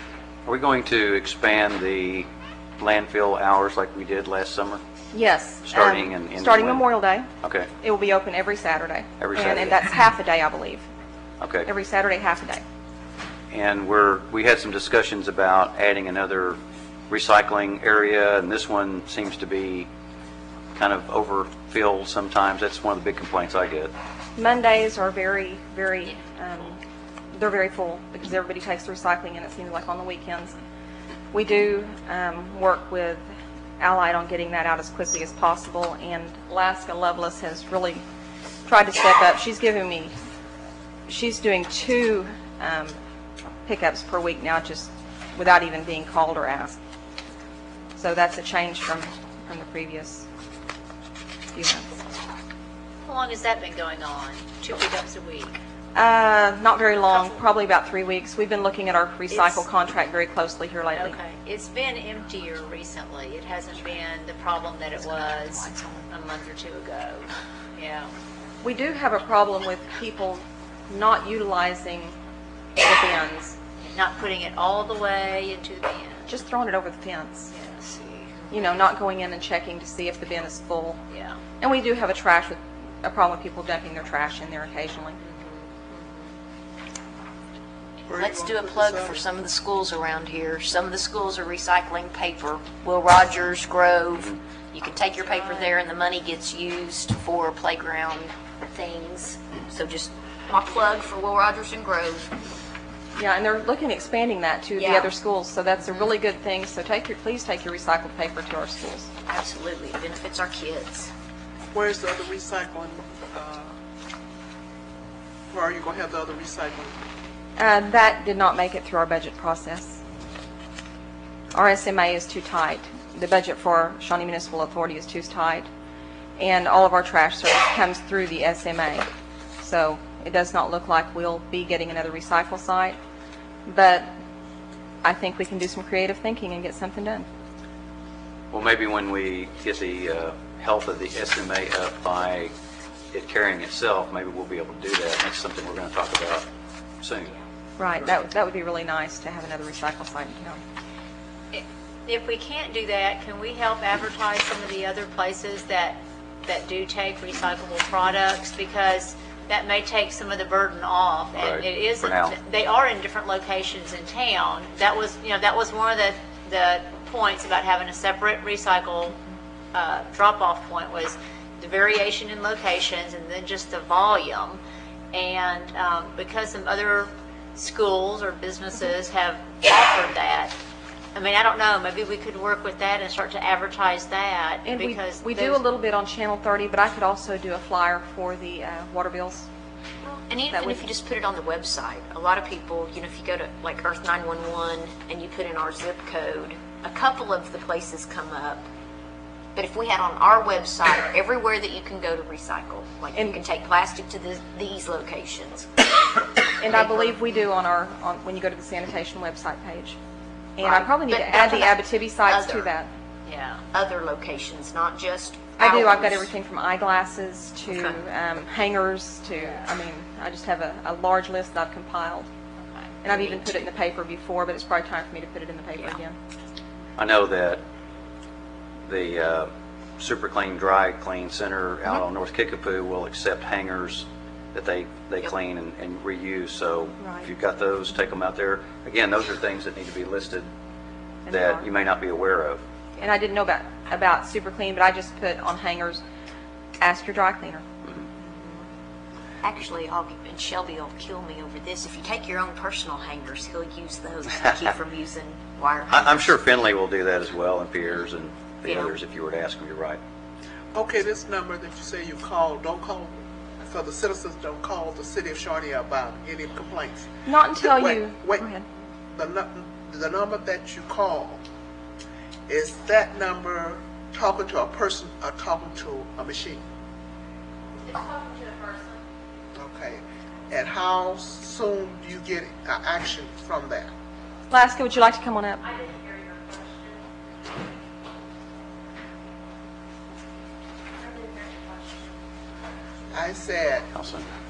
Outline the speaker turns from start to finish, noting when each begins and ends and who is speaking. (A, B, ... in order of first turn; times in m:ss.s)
0:00.4-0:02.3 A
0:02.8-0:04.8 A
0:05.1-0:07.3 B
0:05.6-0:06.9 A
0:07.4-0:07.7 A
0:07.8-0:10.9 B
0:09.2-0:09.8 A
0:11.4-0:11.7 A
0:11.6-0:12.6 B
0:13.5-0:19.9 A
0:20.7-0:23.9 A
0:24.4-0:26.8 B
0:27.3-0:30.5 B
0:31.3-0:33.2 B
0:33.8-0:38.0 B
0:38.6-0:40.1 B
0:41.1-0:43.0 B
0:43.6-0:46.8 B
0:48.0-0:50.3 B
0:51.5-0:52.0 B
0:53.0-0:55.6 C
0:55.9-1:01.2 B
0:57.1-0:57.4 C
0:59.3-0:59.6 C
1:00.9-1:08.1 C
1:05.0-1:06.1 D
1:08.6-1:12.2 B
1:12.8-1:13.6 B
1:13.8-1:16.4 C
1:16.3-1:17.5 B
1:17.5-1:18.5 C
1:18.5-1:21.0 B
1:21.1-1:21.4 C
1:21.6-1:25.2 B
1:25.2-1:26.1 C
1:28.1-1:29.2 E
1:28.1-1:42.3 D
1:35.2-1:35.7 C
1:43.2-1:49.1 B
1:44.8-1:45.1 D
1:49.3-1:51.1 D
1:51.7-1:53.7 E
1:55.5-1:57.0 E
1:57.6-2:00.0 B
2:01.5-2:05.7 B
2:06.4-2:13.0 B
2:13.7-2:14.1 B
2:15.0-2:17.3 B
2:18.5-2:22.5 A
2:23.1-2:26.4 A
2:27.0-2:27.4 A
2:27.8-2:30.6 B
2:31.5-2:49.2 C
2:41.4-2:42.4 A
2:49.7-2:54.6 C
2:55.1-3:00.6 C
3:01.1-3:05.6 C
3:04.6-3:09.5 B
3:10.0-3:18.7 D
3:10.5-3:10.8 B
3:19.5-3:25.8 D
3:26.6-3:30.0 B
3:26.7-3:27.2 D
3:30.6-3:32.9 B
3:30.6-3:32.7 D
3:33.2-3:33.6 C
3:33.7-3:36.3 D
3:35.6-3:42.3 B
3:37.7-3:38.0 D
3:39.4-3:39.6 C
3:42.6-3:43.0 C
3:43.0-3:46.1 B
3:43.1-3:43.6 D
3:47.0-3:47.6 A
3:48.9-4:00.5 A
3:57.0-3:57.3 B
4:01.2-4:01.7 B
4:01.3-4:02.6 A
4:03.0-4:06.0 B
4:06.8-4:07.6 B
4:08.4-4:08.7 D
4:09.4-4:16.3 D
4:15.9-4:20.0 A
4:20.7-4:28.5 E
4:27.2-4:28.7 B
4:29.1-4:31.4 E
4:32.5-4:36.6 E
4:37.8-4:39.0 C
4:39.5-4:43.9 E
4:44.5-4:45.7 B
4:45.6-4:47.0 C
4:51.0-4:52.1 C
4:53.1-4:53.9 E
4:53.9-4:54.2 A